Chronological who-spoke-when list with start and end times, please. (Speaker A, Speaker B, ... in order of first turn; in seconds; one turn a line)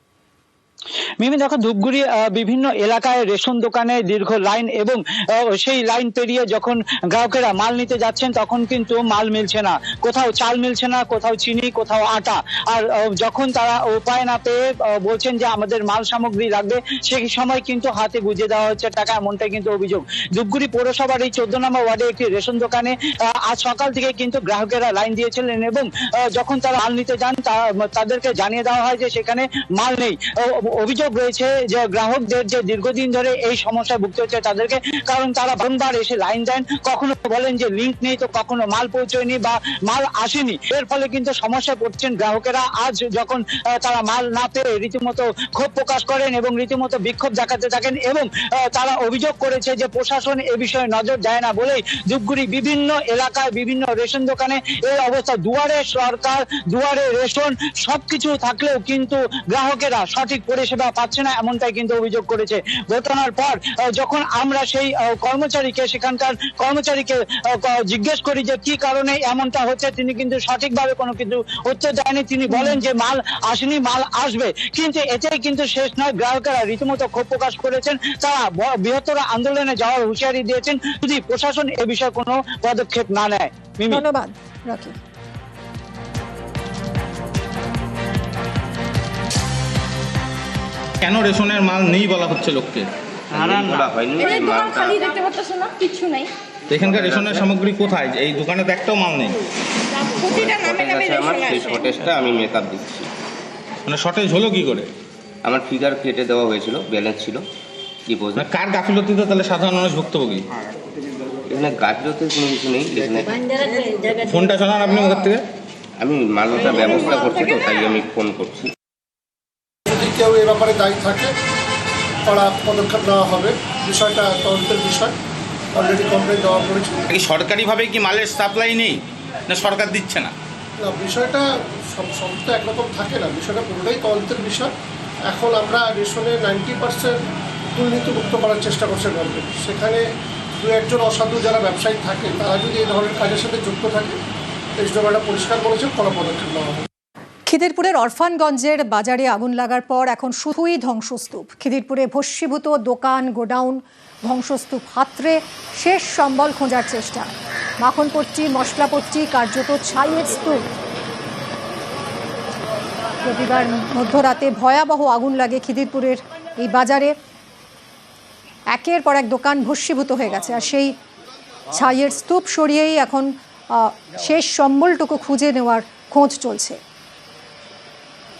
Speaker A: 1.2-84.0
Speaker B: 72.5-72.8
Speaker B: 83.9-85.0
Speaker C: 91.0-92.9
Speaker D: 93.3-95.2
Speaker C: 93.4-93.8
Speaker C: 96.7-99.4
Speaker D: 96.8-97.5
Speaker D: 100.2-103.1
Speaker C: 103.9-104.9
Speaker D: 105.4-107.5
Speaker D: 108.1-108.5
Speaker C: 108.4-110.4
Speaker D: 111.5-114.2
Speaker C: 114.2-115.4
Speaker D: 116.0-118.7
Speaker E: 120.0-121.3
Speaker E: 122.3-125.1
Speaker E: 125.8-127.0
Speaker C: 127.1-130.3
Speaker E: 130.8-131.4
Speaker E: 131.9-134.7
Speaker E: 135.3-137.2
Speaker E: 137.8-140.0
Speaker E: 140.6-144.2
Speaker E: 144.8-146.8
Speaker B: 147.5-160.6
Speaker B: 163.2-167.1
Speaker B: 168.7-170.9
Speaker B: 171.7-176.8